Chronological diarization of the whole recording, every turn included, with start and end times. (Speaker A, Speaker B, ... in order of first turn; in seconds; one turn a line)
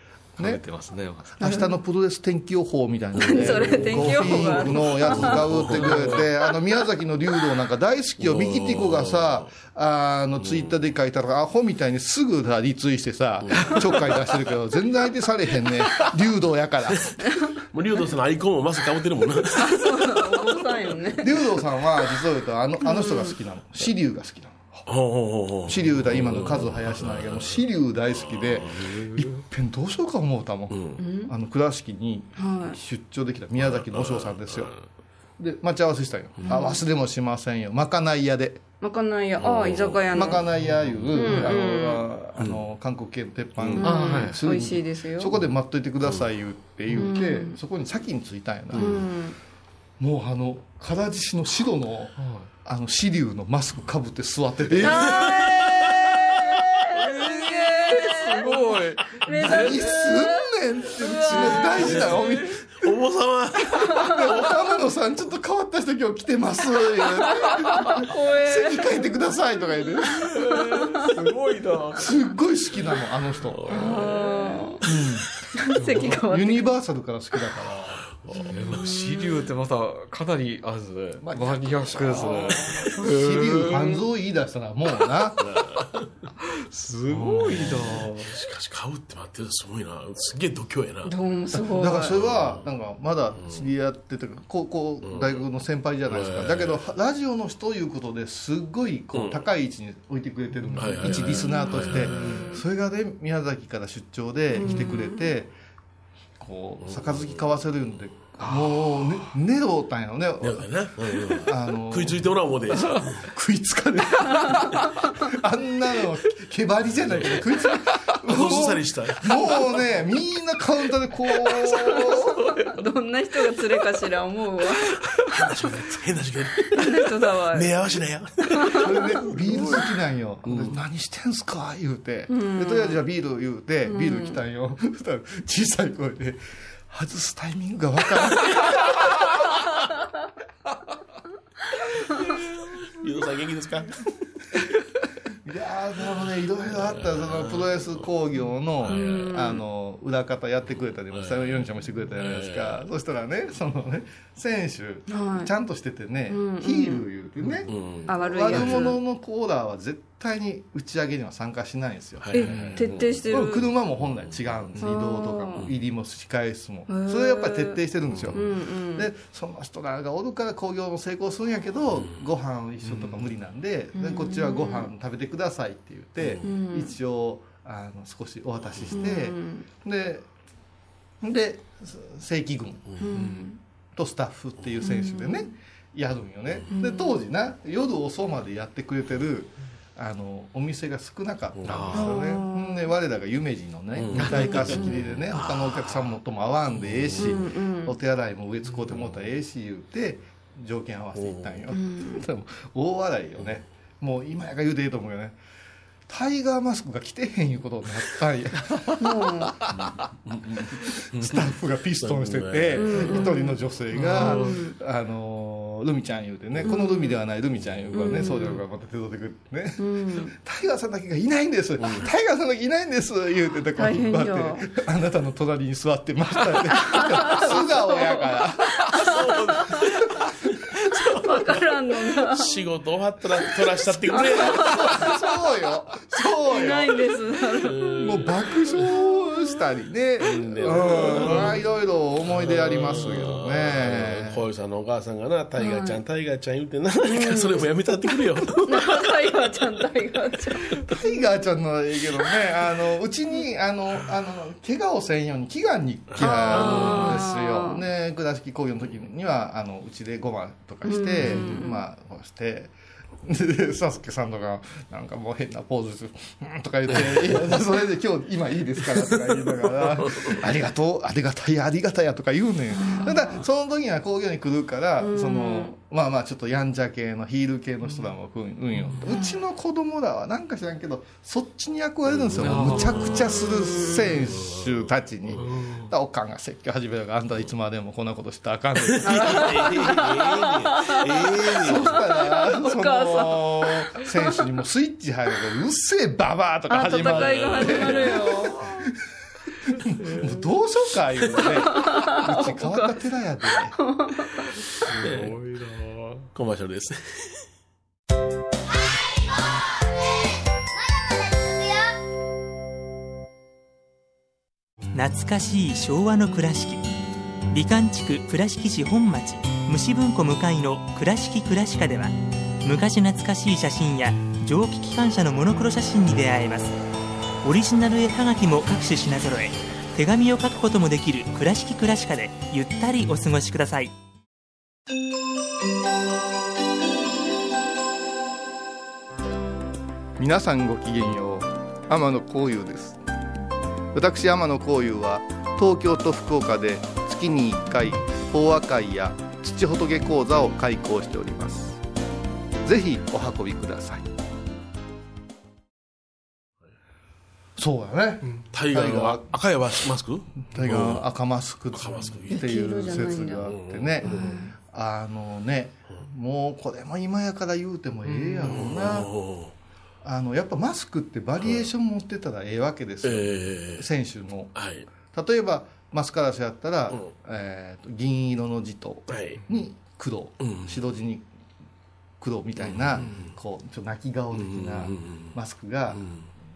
Speaker A: 0.4-0.6
Speaker B: 0.4-1.4
Speaker A: 1.4-17.2
Speaker C: 1.4-1.7
Speaker C: 3.2-5.9
Speaker D: 3.2-6.3
Speaker D: 8.2-9.5
Speaker D: 10.4-10.7
Speaker D: 13.5-14.1
Speaker D: 17.7-20.2
Speaker C: 19.6-21.3
Speaker A: 21.2-24.8
Speaker C: 22.8-23.4
Speaker D: 24.9-27.6
Speaker A: 25.7-34.7
Speaker D: 28.3-28.9
Speaker B: 28.9-29.3
Speaker D: 30.7-31.0
Speaker C: 31.0-31.3
Speaker C: 32.4-32.8
Speaker D: 33.6-34.8
Speaker A: 35.4-38.6
Speaker C: 36.5-36.8
Speaker C: 38.8-40.4
Speaker D: 39.4-40.0
Speaker A: 40.1-49.0
Speaker C: 41.1-42.0
Speaker B: 43.8-44.4
Speaker C: 43.8-45.3
Speaker C: 46.9-47.6
Speaker C: 48.8-49.4
Speaker A: 50.0-55.5
Speaker B: 52.2-52.5
Speaker D: 54.8-56.1
Speaker C: 54.8-62.0
Speaker B: 57.0-59.8
Speaker A: 59.3-62.9
Speaker B: 61.4-62.3
Speaker D: 61.8-62.2
Speaker D: 62.8-64.5
Speaker A: 63.8-70.4
Speaker C: 67.3-69.0
Speaker B: 70.4-72.1
Speaker C: 70.6-71.0
Speaker A: 72.0-74.0
Speaker D: 73.5-74.2
Speaker C: 73.7-74.8
Speaker A: 74.8-75.3
Speaker C: 75.5-76.7
Speaker A: 76.0-78.1
Speaker D: 78.1-78.8
Speaker B: 78.4-84.0
Speaker A: 81.2-85.6
Speaker D: 82.1-82.8
Speaker D: 85.4-86.0
Speaker B: 86.6-88.3
Speaker D: 87.2-91.2
Speaker A: 87.4-87.7
Speaker C: 91.1-92.2
Speaker A: 91.5-105.5
Speaker D: 92.1-92.7
Speaker D: 93.4-93.7
Speaker D: 95.0-95.3
Speaker D: 96.1-96.8
Speaker D: 99.1-99.4
Speaker D: 100.8-102.4
Speaker B: 102.2-102.5
Speaker C: 102.3-102.6
Speaker C: 104.6-105.3
Speaker A: 106.4-110.7
Speaker D: 106.9-107.4
Speaker B: 108.4-109.0
Speaker D: 110.4-113.3
Speaker A: 111.3-122.5
Speaker D: 117.0-117.4
Speaker D: 118.2-119.3
Speaker C: 121.7-125.0
Speaker D: 125.2-129.4
Speaker C: 126.7-127.7
Speaker C: 128.5-128.8
Speaker A: 128.7-139.0
Speaker D: 130.5-130.8
Speaker C: 132.3-133.0
Speaker C: 133.8-134.4
Speaker D: 143.0-144.1
Speaker A: 145.4-162.7
Speaker D: 146.9-148.0
Speaker D: 148.8-149.3
Speaker C: 148.9-149.6
Speaker D: 151.1-151.6
Speaker D: 152.2-152.8
Speaker C: 155.1-155.5
Speaker C: 156.3-157.1
Speaker D: 157.7-158.8
Speaker C: 158.1-159.0
Speaker D: 162.2-163.1
Speaker C: 162.3-163.7
Speaker B: 162.5-162.9
Speaker A: 163.3-180.3
Speaker C: 164.8-165.7
Speaker C: 166.9-167.8
Speaker D: 168.1-168.4
Speaker C: 168.3-169.1
Speaker C: 173.9-174.9
Speaker C: 176.4-176.9
Speaker C: 178.9-179.7
Speaker A: 181.2-182.9
Speaker C: 183.0-183.6
Speaker B: 183.2-183.4
Speaker A: 183.9-205.4
Speaker C: 184.8-185.5
Speaker C: 186.7-187.2
Speaker D: 191.6-192.0
Speaker B: 191.7-192.2
Speaker C: 191.9-192.9
Speaker D: 194.0-196.0
Speaker C: 194.4-195.0
Speaker D: 196.9-197.3
Speaker C: 197.2-198.0
Speaker D: 201.2-201.6
Speaker C: 201.7-202.2
Speaker A: 206.1-209.9
Speaker C: 209.0-209.6
Speaker D: 209.7-213.2
Speaker A: 210.7-230.2
Speaker C: 212.8-213.6
Speaker B: 214.0-214.3
Speaker C: 214.1-214.8
Speaker C: 216.7-217.2
Speaker C: 217.9-218.6
Speaker C: 219.8-220.3
Speaker D: 221.8-222.1
Speaker C: 223.8-224.7
Speaker C: 226.8-229.8
Speaker D: 229.0-229.9
Speaker D: 231.0-231.3
Speaker C: 231.1-232.5
Speaker D: 232.2-235.2
Speaker C: 234.1-235.2
Speaker A: 234.1-237.0
Speaker C: 236.4-238.0
Speaker D: 237.6-238.8
Speaker A: 238.0-244.4
Speaker D: 240.2-241.6
Speaker C: 240.9-241.4
Speaker D: 242.2-249.2
Speaker C: 245.6-246.0
Speaker C: 247.1-247.7
Speaker C: 248.7-250.9
Speaker A: 250.8-289.9
Speaker D: 256.1-257.2
Speaker C: 256.2-257.8
Speaker C: 260.8-261.8
Speaker D: 270.0-270.4
Speaker C: 272.7-273.3
Speaker C: 275.0-275.7
Speaker C: 279.1-279.4
Speaker D: 282.1-283.0
Speaker B: 282.4-283.3
Speaker C: 283.5-283.9
Speaker D: 284.2-284.8
Speaker B: 285.5-285.9
Speaker D: 288.9-292.0
Speaker C: 289.0-294.1
Speaker A: 291.6-298.8
Speaker C: 296.7-298.6
Speaker D: 297.0-298.1
Speaker A: 299.7-303.8
Speaker B: 300.0-300.3
Speaker C: 301.4-303.0
Speaker C: 303.8-304.4
Speaker B: 304.8-306.3
Speaker D: 305.0-305.4
Speaker D: 306.3-307.4
Speaker E: 314.9-316.8
Speaker E: 317.5-326.8
Speaker E: 327.4-333.9
Speaker A: 340.2-343.0
Speaker A: 343.9-351.8
Speaker A: 352.6-354.1
Speaker A: 357.6-359.3
Speaker D: 358.5-361.1
Speaker A: 360.5-369.1
Speaker D: 361.7-362.4
Speaker C: 362.3-363.5
Speaker D: 363.4-364.3
Speaker C: 364.0-364.5
Speaker B: 368.1-368.5
Speaker D: 368.4-369.5
Speaker A: 370.0-374.6
Speaker D: 371.4-371.7
Speaker D: 373.0-373.9
Speaker D: 374.6-374.9
Speaker A: 375.1-381.3
Speaker D: 379.1-379.4
Speaker D: 380.4-380.8
Speaker A: 382.2-386.1
Speaker D: 382.6-383.3
Speaker D: 384.4-385.3
Speaker D: 385.9-386.3